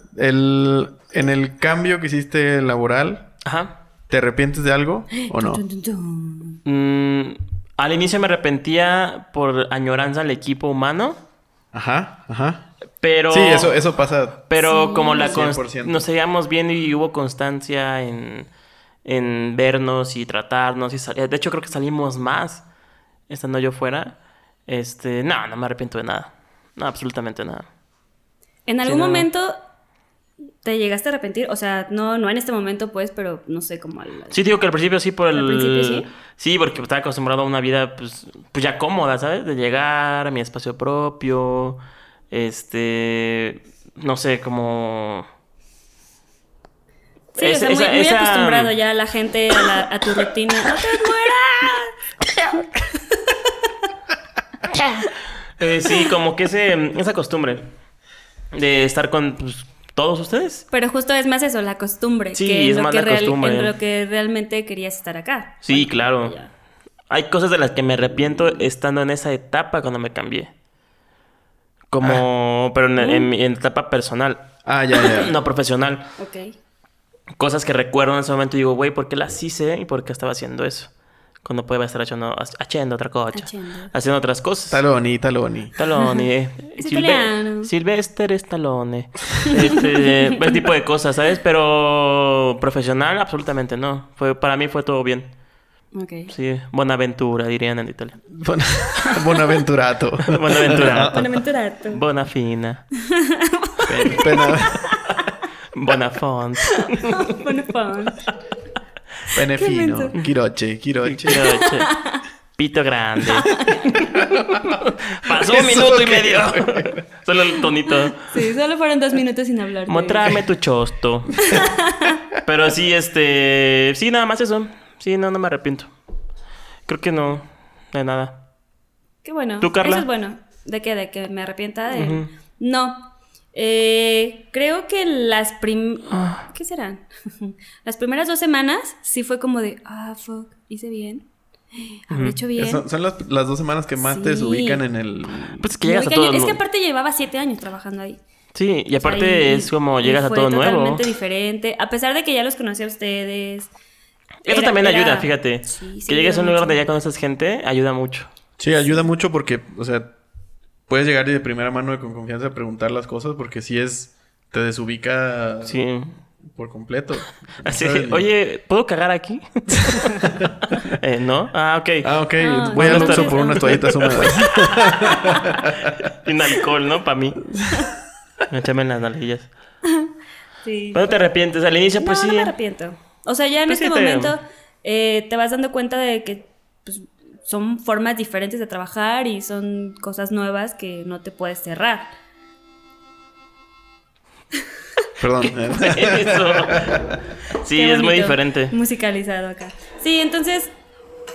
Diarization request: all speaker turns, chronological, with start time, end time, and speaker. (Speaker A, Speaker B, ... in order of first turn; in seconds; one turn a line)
Speaker A: 0.1-3.3
Speaker B: 3.5-3.7
Speaker A: 4.1-5.6
Speaker C: 5.1-6.6
Speaker B: 6.7-11.2
Speaker A: 11.7-12.7
Speaker B: 13.0-13.8
Speaker A: 13.3-14.4
Speaker B: 14.5-18.5
Speaker C: 14.6-15.4
Speaker A: 15.2-16.1
Speaker B: 19.1-22.6
Speaker B: 23.3-27.7
Speaker C: 28.7-29.6
Speaker B: 28.8-29.3
Speaker C: 30.6-34.4
Speaker B: 34.3-41.8
Speaker C: 35.3-36.1
Speaker B: 42.3-45.3
Speaker C: 47.4-51.9
Speaker B: 47.4-48.7
Speaker B: 54.7-57.7
Speaker B: 58.5-60.6
Speaker C: 60.7-66.5
Speaker B: 62.3-63.7
Speaker B: 65.6-66.4
Speaker B: 67.1-70.5
Speaker B: 71.9-76.0
Speaker C: 73.0-73.3
Speaker A: 74.6-75.3
Speaker C: 76.2-76.5
Speaker B: 77.4-80.9
Speaker B: 81.4-84.8
Speaker C: 83.3-83.9
Speaker A: 84.7-85.7
Speaker B: 85.8-95.3
Speaker C: 86.8-87.7
Speaker C: 95.9-96.3
Speaker B: 96.3-98.2
Speaker A: 98.3-101.3
Speaker B: 100.3-101.2
Speaker C: 100.7-102.0
Speaker B: 101.9-102.8
Speaker C: 103.0-105.2
Speaker A: 103.8-104.9
Speaker B: 105.7-107.4
Speaker C: 106.8-108.3
Speaker A: 109.3-111.5
Speaker C: 109.5-110.1
Speaker B: 111.0-111.9
Speaker C: 111.4-112.2
Speaker B: 112.5-118.2
Speaker C: 113.5-113.9
Speaker A: 114.2-114.6
Speaker A: 115.3-117.0
Speaker C: 118.2-120.4
Speaker B: 119.9-121.4
Speaker C: 121.5-122.2
Speaker B: 122.4-125.9
Speaker B: 126.9-128.4
Speaker C: 129.2-142.8
Speaker B: 129.6-130.1
Speaker B: 131.9-132.3
Speaker B: 136.1-136.4
Speaker B: 142.1-142.4
Speaker A: 142.6-145.7
Speaker C: 144.0-144.8
Speaker B: 145.6-146.6
Speaker C: 145.8-148.2
Speaker B: 148.6-151.0
Speaker C: 149.0-153.7
Speaker C: 154.4-156.9
Speaker B: 154.4-158.3
Speaker A: 158.6-160.1
Speaker C: 158.8-159.0
Speaker A: 160.9-165.8
Speaker B: 165.6-166.2
Speaker A: 166.4-168.3
Speaker B: 167.6-170.2
Speaker A: 170.2-170.9
Speaker B: 170.8-172.1
Speaker A: 172.0-176.1
Speaker C: 172.4-174.5
Speaker B: 172.7-174.9
Speaker C: 175.0-175.6
Speaker B: 175.8-177.4
Speaker A: 177.5-177.9
Speaker B: 178.5-179.5
Speaker C: 180.6-181.1
Speaker B: 180.9-182.5
Speaker C: 182.0-192.1
Speaker B: 183.7-184.3
Speaker A: 195.2-197.2
Speaker B: 195.7-197.0
Speaker B: 197.6-198.7
Speaker C: 197.6-200.7